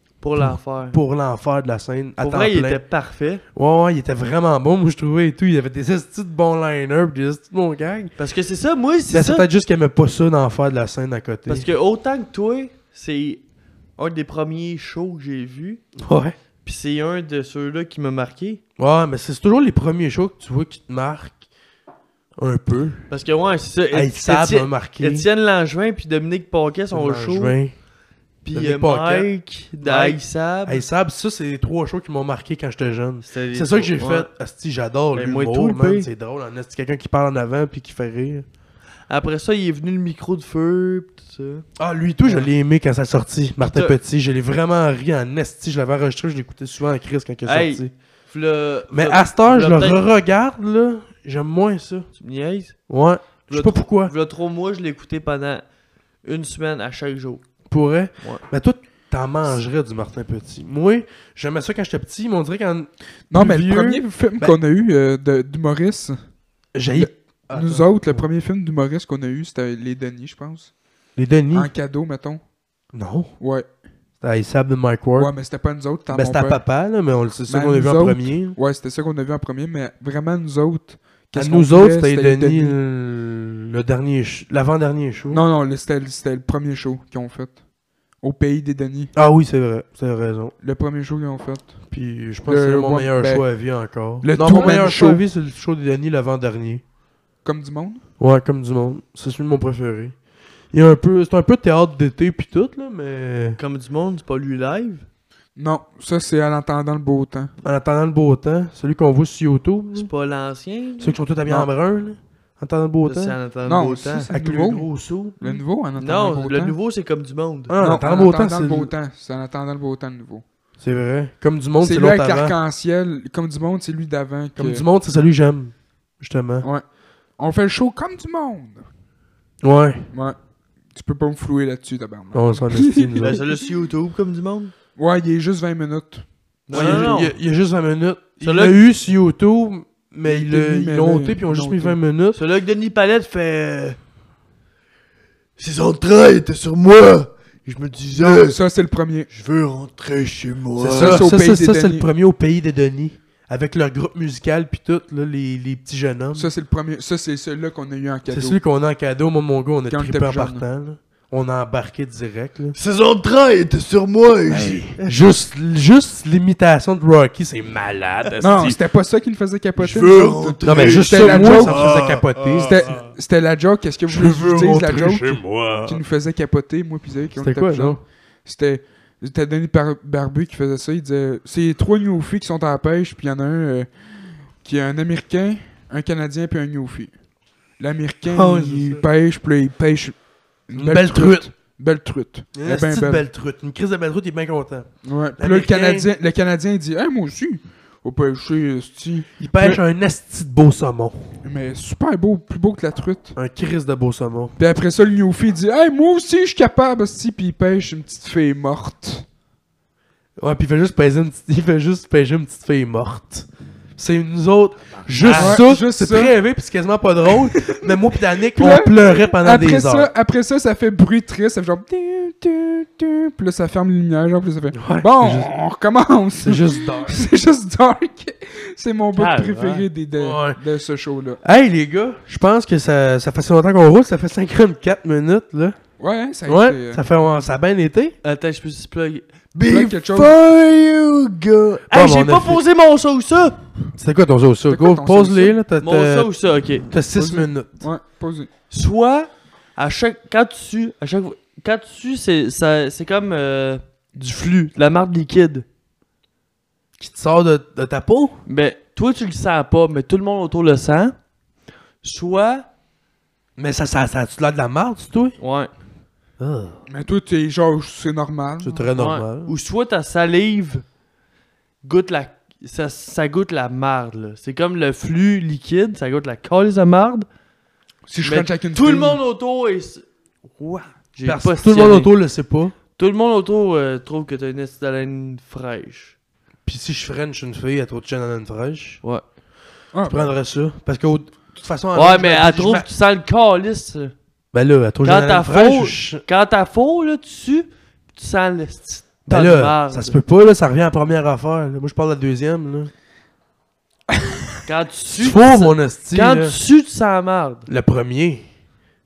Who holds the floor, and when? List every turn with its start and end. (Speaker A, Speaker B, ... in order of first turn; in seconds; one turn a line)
Speaker A: 0.2-1.0
Speaker B: 0.4-2.8
Speaker A: 2.2-3.4
Speaker B: 3.5-8.1
Speaker A: 8.2-9.4
Speaker B: 9.1-11.7
Speaker A: 11.5-13.4
Speaker A: 14.0-15.8
Speaker B: 16.0-16.3
Speaker A: 16.6-18.6
Speaker B: 18.8-21.4
Speaker B: 22.4-23.0
Speaker A: 23.1-27.6
Speaker B: 23.9-25.2
Speaker B: 26.9-27.7
Speaker A: 28.4-30.8
Speaker B: 28.5-29.3
Speaker B: 29.8-38.5
Speaker A: 33.2-34.3
Speaker A: 35.1-36.1
Speaker A: 39.1-41.6
Speaker B: 41.8-47.9
Speaker A: 43.6-44.0
Speaker A: 47.4-50.0
Speaker B: 48.9-52.1
Speaker A: 52.1-52.8
Speaker B: 52.9-54.1
Speaker A: 53.5-55.6
Speaker A: 56.2-57.4
Speaker B: 57.7-64.5
Speaker C: 63.3-66.2
Speaker B: 66.7-68.2
Speaker C: 66.9-70.7
Speaker B: 71.2-71.7
Speaker C: 71.5-72.4
Speaker B: 72.9-73.3
Speaker C: 73.4-73.7
Speaker B: 74.2-75.3
Speaker C: 75.2-76.6
Speaker B: 76.1-78.6
Speaker C: 77.5-82.8
Speaker B: 81.3-85.4
Speaker C: 85.3-87.6
Speaker C: 88.2-89.1
Speaker B: 89.1-90.5
Speaker C: 90.6-91.8
Speaker B: 91.9-96.8
Speaker C: 92.5-93.4
Speaker C: 94.2-95.2
Speaker A: 94.4-94.9
Speaker C: 97.4-98.0
Speaker B: 98.2-100.1
Speaker B: 100.7-103.6
Speaker A: 103.6-105.0
Speaker C: 105.6-107.5
Speaker B: 107.6-110.1
Speaker A: 109.9-111.2
Speaker B: 111.0-113.4
Speaker A: 113.0-114.3
Speaker C: 113.7-114.9
Speaker B: 114.3-115.4
Speaker C: 115.4-116.7
Speaker A: 116.0-117.7
Speaker B: 117.7-118.9
Speaker C: 117.8-120.4
Speaker B: 120.8-122.6
Speaker C: 121.8-124.8
Speaker B: 124.6-126.7
Speaker C: 127.4-128.8
Speaker B: 129.6-130.1
Speaker C: 130.9-133.5
Speaker B: 132.3-133.4
Speaker A: 133.2-134.7
Speaker C: 135.0-137.1
Speaker A: 136.7-137.3
Speaker B: 136.7-142.4
Speaker A: 138.4-138.8
Speaker C: 140.2-142.0
Speaker A: 142.3-144.0
Speaker A: 145.6-148.6
Speaker C: 148.1-149.3
Speaker A: 149.3-151.3
Speaker B: 150.8-156.5
Speaker C: 150.9-152.1
Speaker C: 156.3-158.6
Speaker B: 158.3-162.7
Speaker C: 159.9-160.6
Speaker A: 162.7-165.1
Speaker B: 164.5-168.8
Speaker C: 168.4-171.9
Speaker A: 169.8-173.1
Speaker B: 170.6-172.9
Speaker C: 172.5-187.1
Speaker B: 174.1-176.0
Speaker B: 177.3-178.0
Speaker C: 187.8-193.2
Speaker B: 188.3-189.1
Speaker B: 190.8-191.5
Speaker B: 192.5-196.1
Speaker C: 195.0-199.8
Speaker B: 199.4-201.2
Speaker C: 201.4-203.3
Speaker B: 203.3-204.5
Speaker C: 204.6-209.2
Speaker B: 210.4-220.1
Speaker A: 215.2-215.6
Speaker C: 215.3-216.3
Speaker C: 217.4-217.9
Speaker C: 218.5-231.4
Speaker B: 224.7-225.5
Speaker B: 226.4-227.2
Speaker A: 229.1-229.9
Speaker B: 230.1-230.6
Speaker B: 231.4-235.8
Speaker C: 236.0-237.0
Speaker B: 236.4-238.1
Speaker A: 238.2-243.6
Speaker C: 239.6-240.3
Speaker B: 241.9-242.6
Speaker B: 243.9-246.3
Speaker C: 244.7-245.6
Speaker A: 245.8-246.9
Speaker B: 246.9-247.8
Speaker C: 247.1-248.5
Speaker A: 248.7-255.6
Speaker B: 257.0-258.4
Speaker A: 258.5-261.1
Speaker A: 262.0-262.7
Speaker B: 263.6-265.4
Speaker A: 265.4-265.7
Speaker B: 266.4-266.8
Speaker C: 266.9-268.9
Speaker B: 268.6-269.5
Speaker A: 269.0-270.8
Speaker A: 271.8-277.3
Speaker C: 278.1-279.2
Speaker A: 278.2-280.0
Speaker A: 280.6-282.1
Speaker B: 281.2-282.7
Speaker A: 282.9-286.1
Speaker B: 286.6-289.0
Speaker C: 289.9-290.3
Speaker B: 290.1-292.9
Speaker A: 291.9-294.1
Speaker B: 294.5-296.2
Speaker A: 295.0-300.2
Speaker B: 299.3-302.9
Speaker A: 304.6-307.7
Speaker B: 305.2-306.6
Speaker B: 307.7-308.4